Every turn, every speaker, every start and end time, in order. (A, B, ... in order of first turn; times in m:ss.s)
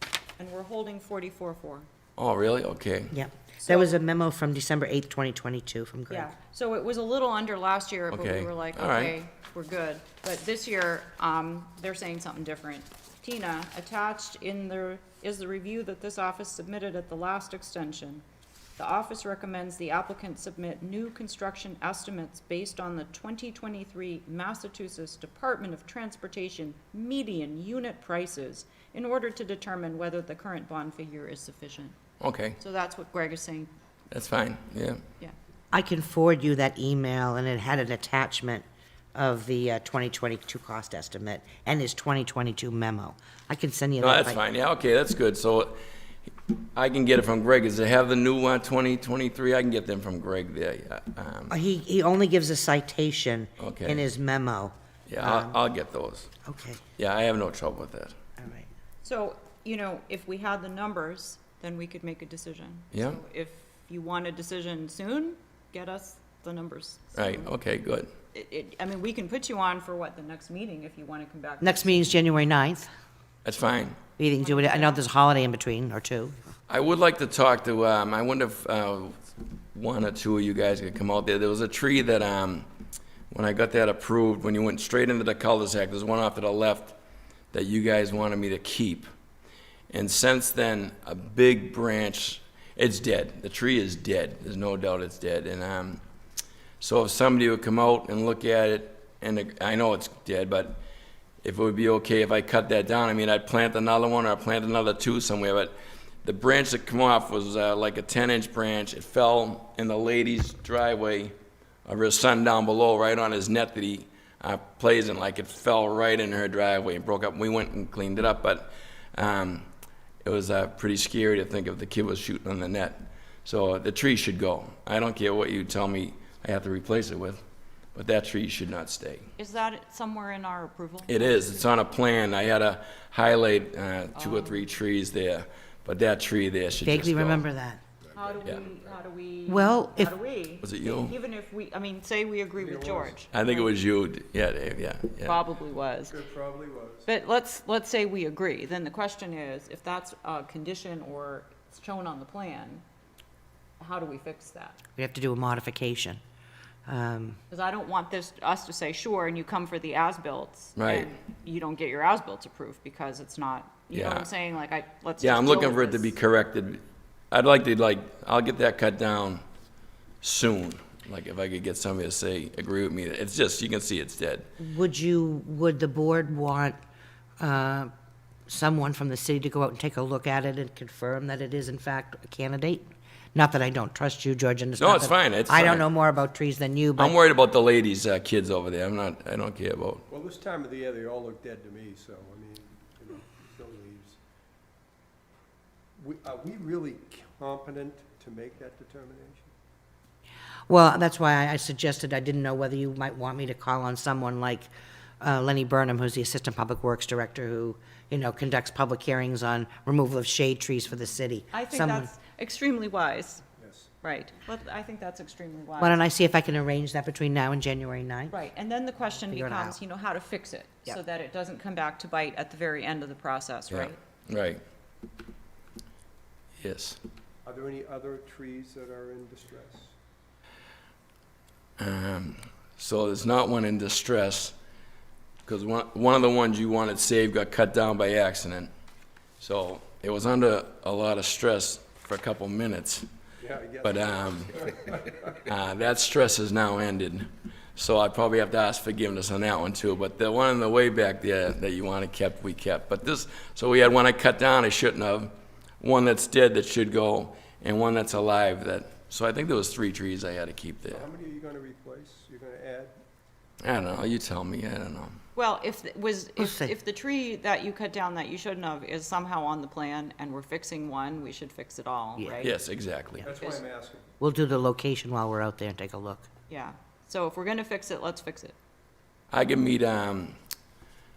0:00.4-0:01.9 A
0:02.2-0:03.1 B
0:03.1-0:06.3 C
0:03.6-0:03.9 A
0:06.1-0:18.2 A
0:08.1-0:09.2 B
0:18.8-0:32.0 A
0:32.2-0:32.6 B
0:32.6-0:33.7 A
0:34.1-0:35.0 B
0:35.7-0:44.4 C
0:44.0-0:45.8 B
0:46.5-0:51.5 B
0:51.5-0:55.5 C
0:53.6-0:54.0 B
0:55.1-0:56.3 B
0:56.4-0:56.8 C
0:57.0-0:58.1 B
0:58.4-0:58.7 C
0:59.0-1:07.5 A
1:02.9-1:03.2 B
1:07.2-1:08.1 B
1:08.3-1:12.1 A
1:11.6-1:12.9 C
1:13.4-1:14.0 B
1:14.2-1:16.4 C
1:14.4-1:15.0 A
1:16.7-1:22.6 B
1:23.3-1:27.0 B
1:27.5-1:29.1 B
1:29.9-1:36.0 B
1:36.8-1:40.8 B
1:41.4-1:45.7 B
1:46.2-1:51.3 B
1:51.8-1:59.6 B
2:00.2-2:07.4 B
2:07.9-2:09.3 B
2:09.4-2:11.7 A
2:11.1-2:17.4 B
2:14.2-2:14.6 A
2:16.8-2:17.8 C
2:18.1-2:23.7 A
2:19.5-2:20.1 C
2:20.6-2:21.2 B
2:22.6-2:23.2 D
2:23.3-2:25.4 B
2:25.2-2:26.1 A
2:26.1-2:27.1 D
2:27.0-2:32.8 A
2:33.8-2:34.8 A
2:35.0-2:36.2 C
2:36.9-2:37.4 C
2:37.5-2:46.1 A
2:40.8-2:41.1 B
2:43.9-2:44.3 B
2:45.2-2:49.4 B
2:50.2-2:54.5 B
2:54.6-2:56.8 C
2:57.4-2:57.9 C
2:58.5-3:07.2 C
3:04.8-3:05.8 B
3:07.0-3:10.0 B
3:10.1-3:14.2 D
3:16.0-3:19.5 D
3:20.7-3:24.7 C
3:25.2-3:32.1 C
3:31.5-3:33.4 A
3:33.6-3:33.9 D
3:34.0-3:36.0 A
3:35.8-3:38.4 C
3:38.3-3:44.0 A
3:39.3-3:39.7 C
3:43.7-3:44.6 B
3:46.6-3:47.0 B
3:47.4-3:49.9 D
3:51.8-3:54.5 B
3:55.4-3:58.7 B
3:59.4-4:03.0 B
4:03.4-4:05.3 D
4:03.8-4:04.7 B
4:05.4-4:21.1 B
4:20.8-4:23.0 D
4:23.6-4:25.2 B
4:25.3-4:32.6 A
4:26.4-4:26.7 C
4:32.2-4:32.4 C
4:32.4-4:33.3 B
4:33.2-4:34.1 D
4:33.2-4:33.6 A
4:34.2-4:36.3 C
4:36.5-4:38.6 A
4:39.3-4:40.4 B